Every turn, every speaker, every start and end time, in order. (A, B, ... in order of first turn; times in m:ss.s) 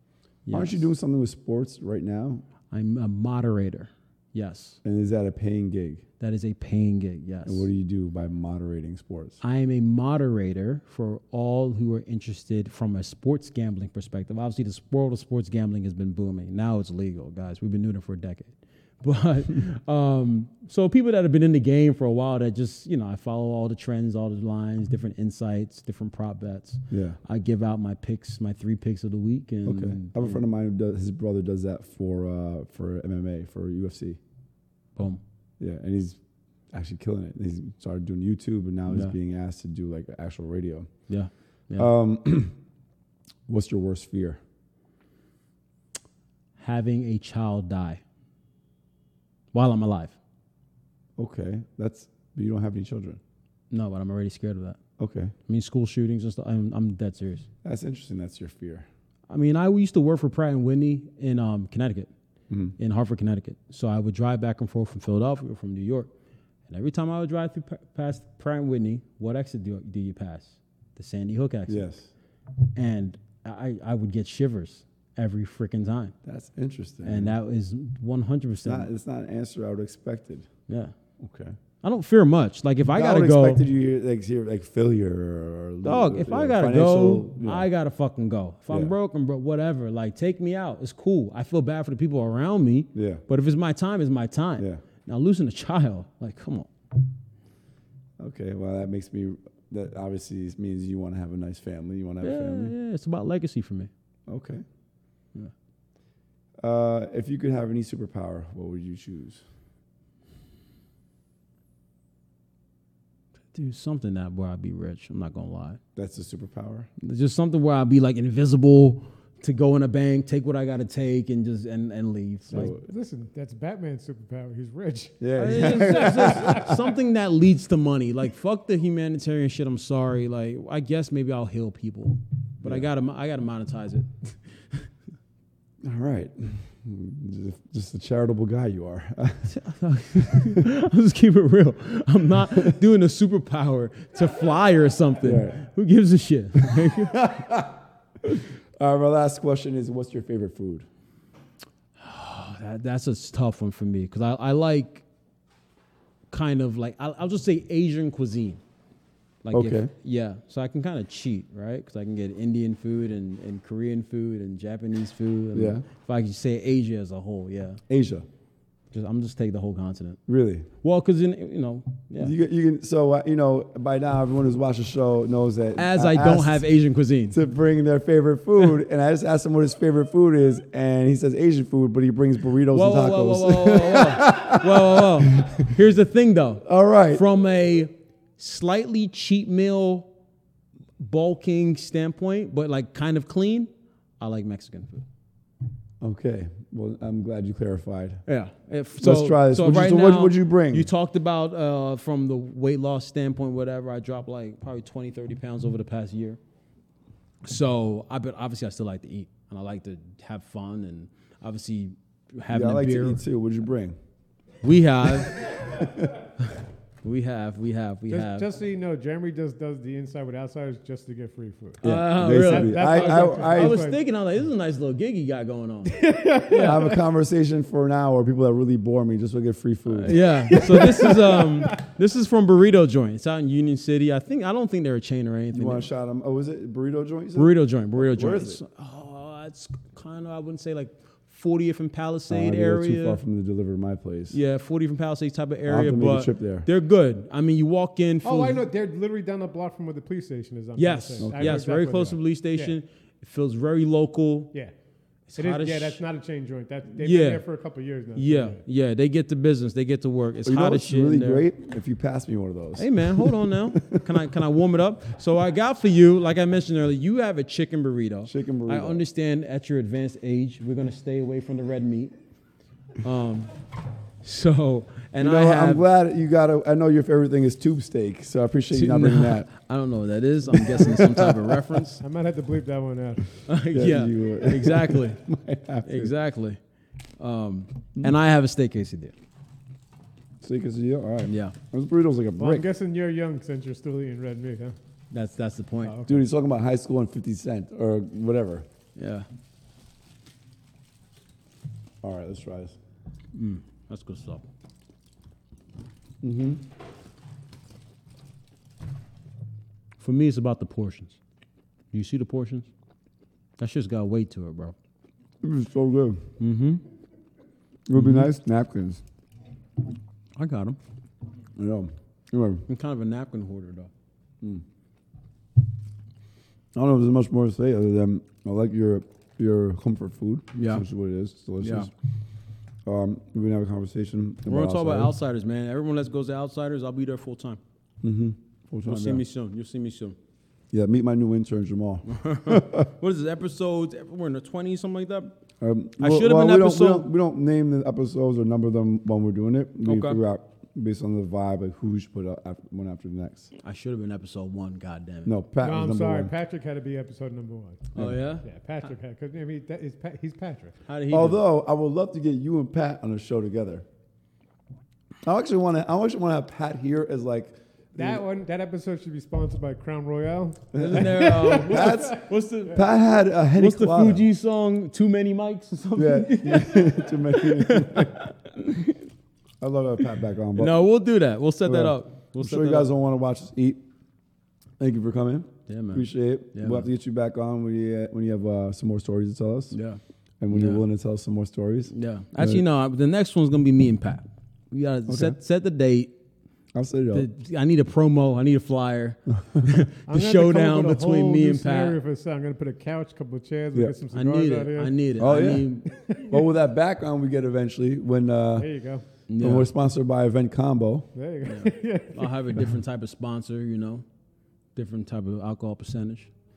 0:00.5-0:00.9 A
0:00.5-0:02.4 B
0:02.7-0:04.8 A
0:04.8-0:06.0 B
0:06.2-0:07.7 A
0:07.4-0:09.4 B
0:09.4-0:30.4 A
0:26.9-0:27.2 B
0:29.7-0:34.2 B
0:35.0-0:35.2 A
0:35.6-0:36.2 B
0:36.7-0:40.9 B
0:41.1-0:41.9 A
0:41.8-0:42.6 B
0:43.5-0:44.4 B
0:46.6-0:48.0 A
0:49.5-0:50.2 A
0:51.2-0:53.2 B
0:53.7-0:54.8 A
0:55.0-0:55.3 B
0:55.5-0:57.5 A
0:57.6-0:58.9 B
0:59.3-1:02.1 A
1:02.5-1:02.8 B
1:02.8-1:06.1 A
1:06.7-1:11.8 A
1:11.7-1:12.1 B
1:12.8-1:16.2 A
1:16.2-1:17.3 B
1:17.0-1:18.9 A
1:18.6-1:20.5 B
1:20.7-1:20.9 A
1:21.2-1:21.6 B
1:21.8-1:23.6 A
1:22.9-1:27.7 B
1:25.8-1:36.7 A
1:28.7-1:29.0 B
1:33.0-1:33.2 B
1:38.2-1:42.7 B
1:42.2-1:43.9 A
1:44.3-1:44.6 B
1:46.6-1:49.4 B
1:53.5-1:55.8 A
1:56.0-1:56.9 B
1:57.0-2:02.7 A
2:02.5-2:02.9 B
2:02.6-2:07.0 C
2:05.2-2:06.8 B
2:05.4-2:14.9 A
2:15.8-2:19.5 B
2:19.5-2:27.5 A
2:25.2-2:25.6 B
2:26.6-2:27.8 B
2:28.8-2:30.9 B
2:32.0-2:35.0 A
2:36.3-2:38.6 A
2:39.4-2:47.8 A
2:39.5-2:39.9 B
2:45.5-2:45.8 B
2:47.9-2:48.3 B
2:48.9-2:50.2 A
2:50.3-2:50.7 B
2:50.8-2:52.3 A
2:52.2-2:56.6 B
2:55.8-2:57.4 A
2:57.3-3:05.7 B
3:02.7-3:10.1 A
3:06.6-3:07.2 B
3:11.0-3:15.0 A
3:16.0-3:18.2 B
3:18.3-3:26.4 A
3:19.0-3:20.9 B
3:27.4-3:33.2 A
3:32.5-3:34.0 B
3:34.6-3:35.9 A
3:35.2-3:36.2 B
3:37.0-3:38.5 A
3:38.1-3:44.0 C
3:41.8-3:43.9 B
3:41.8-3:46.9 A
3:45.9-3:47.0 C
3:46.6-3:50.8 B
3:49.9-3:55.9 A
3:50.5-3:51.9 C
3:55.5-3:58.6 B
3:57.4-4:03.2 A
4:02.3-4:04.4 B
4:04.3-4:08.6 A
4:05.7-4:06.7 B
4:08.2-4:12.8 C
4:10.8-4:14.5 A
4:11.2-4:11.7 B
4:15.3-4:16.0 A
4:15.4-4:18.6 C
4:17.0-4:17.4 A
4:18.2-4:21.4 A
4:20.4-4:24.1 B
4:22.8-4:32.1 A
4:28.3-4:29.0 B
4:33.0-4:33.5 A
4:34.2-4:35.8 A
4:35.2-4:39.5 B
4:38.7-4:42.0 A
4:40.5-4:41.8 B
4:42.0-4:43.3 C
4:43.5-4:45.2 A
4:43.7-4:46.1 B
4:45.8-4:46.6 A
4:47.2-4:49.1 A
4:50.4-4:52.7 B
4:51.3-4:51.6 A
4:52.4-4:54.8 C
4:55.1-4:56.0 A
4:55.9-4:56.2 C
4:56.1-4:58.7 B
4:59.0-4:59.3 A
5:02.0-5:02.8 B
5:03.3-5:04.4 A
5:06.2-5:06.6 B
5:10.0-5:11.2 A
5:11.9-5:12.7 A
5:13.6-5:14.8 A
5:15.4-5:16.2 B
5:16.4-5:16.8 A
5:17.9-5:19.0 B
5:17.9-5:18.3 A
5:20.4-5:20.8 A
5:21.6-5:22.6 B
5:22.7-5:23.9 A
5:26.8-5:31.9 B
5:30.6-5:30.8 A
5:31.6-5:31.9 A
5:32.8-5:35.1 B
5:34.5-5:37.6 A
5:38.0-5:39.2 B
5:38.8-5:40.2 A
5:40.7-5:42.9 B
5:42.1-5:45.4 A
5:45.6-5:53.5 B
5:46.0-5:47.1 A
5:49.9-5:50.2 A
5:53.6-5:55.3 A
5:55.3-5:56.3 B
5:55.6-6:00.8 C
5:58.0-5:58.4 A
6:00.9-6:01.4 A
6:01.1-6:03.8 B
6:05.2-6:08.2 B
6:08.0-6:12.2 C
6:10.7-6:14.3 B
6:10.8-6:12.9 A
6:13.6-6:19.0 A
6:16.0-6:18.2 B
6:19.6-6:20.8 B
6:20.6-6:22.9 A
6:21.6-6:23.8 B
6:24.8-6:29.8 B
6:25.7-6:26.9 A
6:29.7-6:30.0 A
6:30.4-6:32.6 B
6:30.5-6:30.8 A
6:31.9-6:36.1 A
6:35.1-6:35.4 B
6:36.8-6:37.3 B
6:37.1-6:42.0 A
6:40.1-6:45.1 C
6:44.1-6:45.9 A
6:45.2-6:48.7 B
6:45.9-6:46.5 C
6:48.6-6:49.1 C
6:49.3-6:49.7 A
6:49.4-6:51.1 B
6:51.2-6:52.6 C
6:51.5-6:54.0 A
6:54.8-6:56.3 A